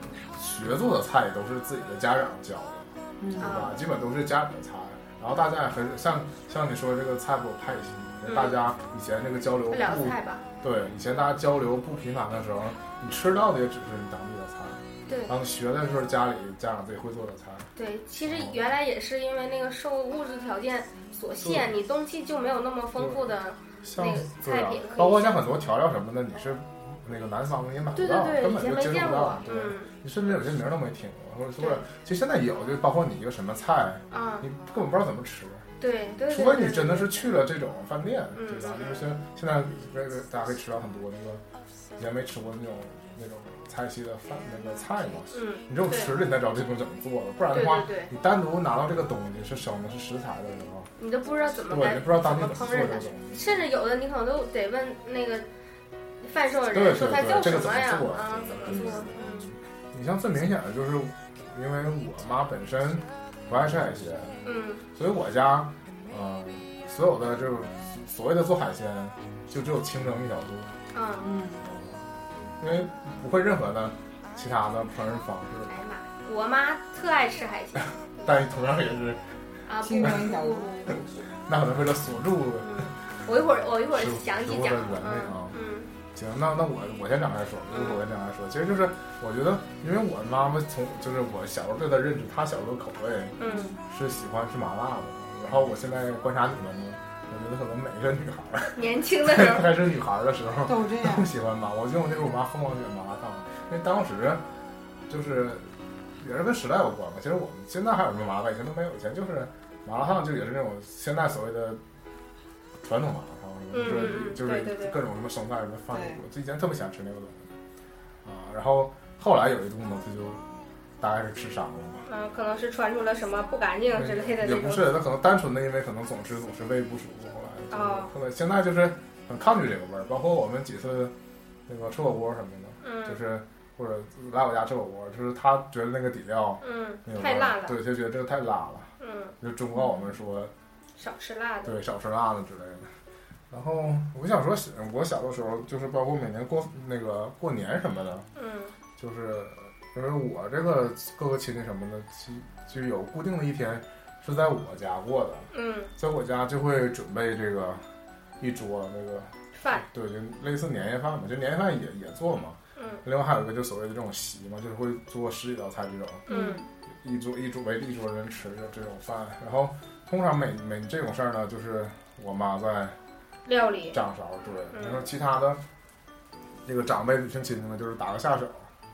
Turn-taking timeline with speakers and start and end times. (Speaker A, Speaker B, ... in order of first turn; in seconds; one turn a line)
Speaker A: 0.4-17.7
Speaker B: 3.2-3.5
Speaker C: 3.4-3.8
Speaker C: 8.2-8.6
Speaker C: 9.7-10.4
Speaker C: 15.1-15.3
Speaker C: 17.8-25.4
Speaker A: 18.2-18.6
Speaker A: 21.4-21.7
Speaker A: 23.0-23.2
Speaker A: 23.8-35.7
Speaker C: 27.9-29.9
Speaker C: 34.1-34.5
Speaker C: 35.8-37.2
Speaker A: 36.3-41.4
Speaker C: 38.4-39.1
Speaker A: 42.0-50.9
Speaker C: 45.3-46.2
Speaker C: 47.5-48.1
Speaker C: 51.0-55.5
Speaker A: 51.7-53.5
Speaker C: 56.2-59.5
Speaker A: 56.7-59.1
Speaker B: 58.7-59.0
Speaker A: 59.9-64.4
Speaker C: 64.5-64.9
Speaker A: 65.0-70.8
Speaker C: 70.9-71.3
Speaker B: 71.2-71.7
Speaker A: 71.6-72.0
Speaker A: 72.6-75.8
Speaker C: 75.7-78.0
Speaker A: 78.2-79.2
Speaker C: 79.7-81.0
Speaker B: 79.8-81.1
Speaker A: 81.5-82.9
Speaker C: 82.6-85.9
Speaker A: 83.9-85.6
Speaker A: 86.1-104.4
Speaker C: 87.7-88.0
Speaker C: 93.4-93.7
Speaker B: 93.4-93.8
Speaker C: 98.8-99.8
Speaker B: 100.7-101.3
Speaker A: 105.1-105.7
Speaker A: 106.2-111.8
Speaker A: 112.8-117.5
Speaker C: 113.7-115.0
Speaker B: 115.9-116.2
Speaker A: 118.2-120.4
Speaker A: 121.0-122.0
Speaker C: 122.1-124.9
Speaker A: 123.9-131.1
Speaker C: 127.7-128.1
Speaker A: 131.7-140.5
Speaker C: 132.8-133.2
Speaker C: 136.6-137.8
Speaker C: 139.0-139.3
Speaker C: 141.0-141.7
Speaker A: 141.6-142.9
Speaker A: 143.5-148.3
Speaker C: 148.4-148.7
Speaker A: 149.0-157.8
Speaker C: 155.5-155.9
Speaker A: 158.4-166.3
Speaker C: 159.6-159.9
Speaker C: 162.8-163.0
Speaker C: 166.3-166.6
Speaker B: 166.3-166.7
Speaker A: 167.0-173.0
Speaker C: 173.5-174.0
Speaker A: 173.9-175.6
Speaker C: 174.7-175.1
Speaker A: 176.7-178.7